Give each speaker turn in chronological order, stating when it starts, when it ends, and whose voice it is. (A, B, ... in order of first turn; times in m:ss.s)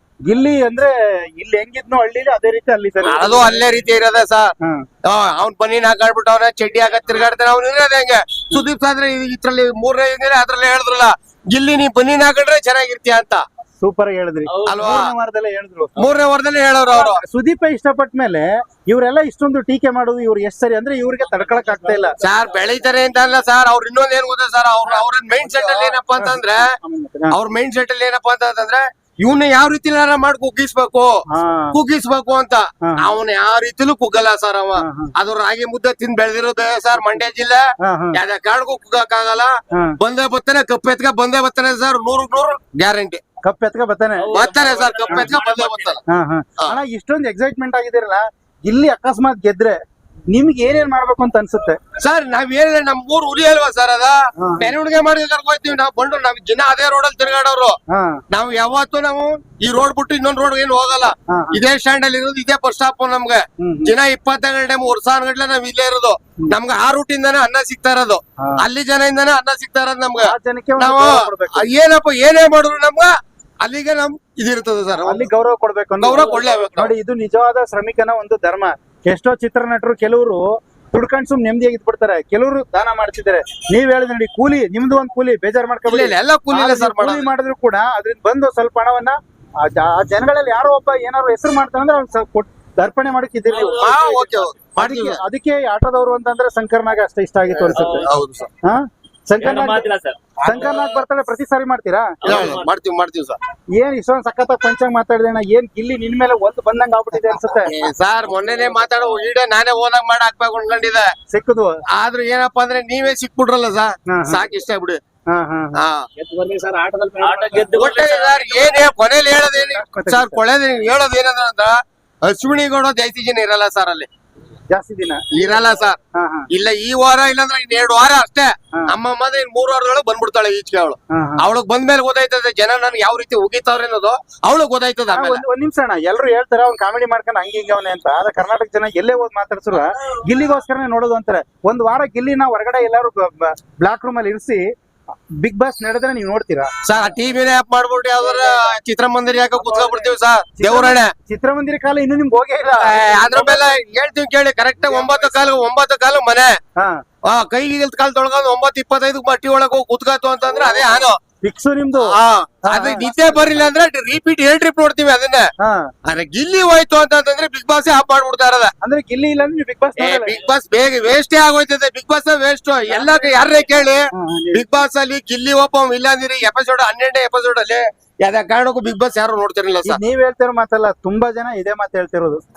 0:00.3-0:03.6 A
0:03.0-0:04.5 B
0:05.1-0:13.4 B
0:13.8-0:16.1 A
0:14.6-0:15.1 B
0:16.0-0:17.2 B
0:16.9-0:22.2 A
0:22.2-0:26.7 B
0:26.2-0:27.4 A
0:27.3-0:31.2 B
0:31.3-0:31.8 A
0:31.7-0:43.2 B
0:32.8-0:33.2 A
0:34.8-0:35.1 A
0:37.8-0:38.2 A
0:43.4-0:44.4 A
0:44.2-0:45.9 C
0:44.3-0:46.0 B
0:46.1-0:49.8 A
0:50.3-0:51.8 A
0:52.0-0:57.8 B
0:54.4-0:54.7 A
0:57.9-0:58.2 A
0:58.3-1:15.3 B
1:01.3-1:01.6 A
1:03.6-1:04.0 A
1:10.2-1:11.7 A
1:15.0-1:33.9 A
1:16.0-1:16.9 B
1:25.9-1:27.3 B
1:33.5-1:34.5 C
1:33.7-1:35.2 B
1:34.8-1:38.1 A
1:37.6-1:38.5 B
1:37.8-1:38.1 C
1:38.6-1:39.9 A
1:39.4-1:40.6 C
1:40.4-1:42.6 A
1:40.5-1:41.0 B
1:42.2-1:43.4 B
1:42.3-1:42.7 C
1:43.8-1:47.7 A
1:47.6-1:51.1 B
1:51.3-1:51.8 A
1:51.9-1:55.0 B
1:54.1-1:54.4 A
1:55.3-1:55.8 A
1:55.8-1:56.1 B
1:56.2-1:58.7 C
1:57.7-2:01.7 B
1:59.4-2:00.4 A
2:02.3-2:04.1 B
2:04.7-2:05.2 A
2:05.3-2:06.0 B
2:06.2-2:06.5 A
2:06.5-2:15.4 B
2:11.1-2:11.4 A
2:15.1-2:24.6 A
2:25.4-2:26.7 A
2:26.8-2:31.1 B
2:29.6-2:33.6 A
2:32.8-2:36.5 B
2:34.9-2:35.5 A
2:37.2-2:41.2 B
2:41.4-2:43.4 A
2:42.0-2:45.5 B
2:45.6-2:45.9 A
2:46.0-2:48.7 B
2:48.8-2:50.4 A
2:50.0-3:00.0 B
2:53.0-2:53.2 A
2:54.1-2:54.7 A
2:59.9-3:02.4 A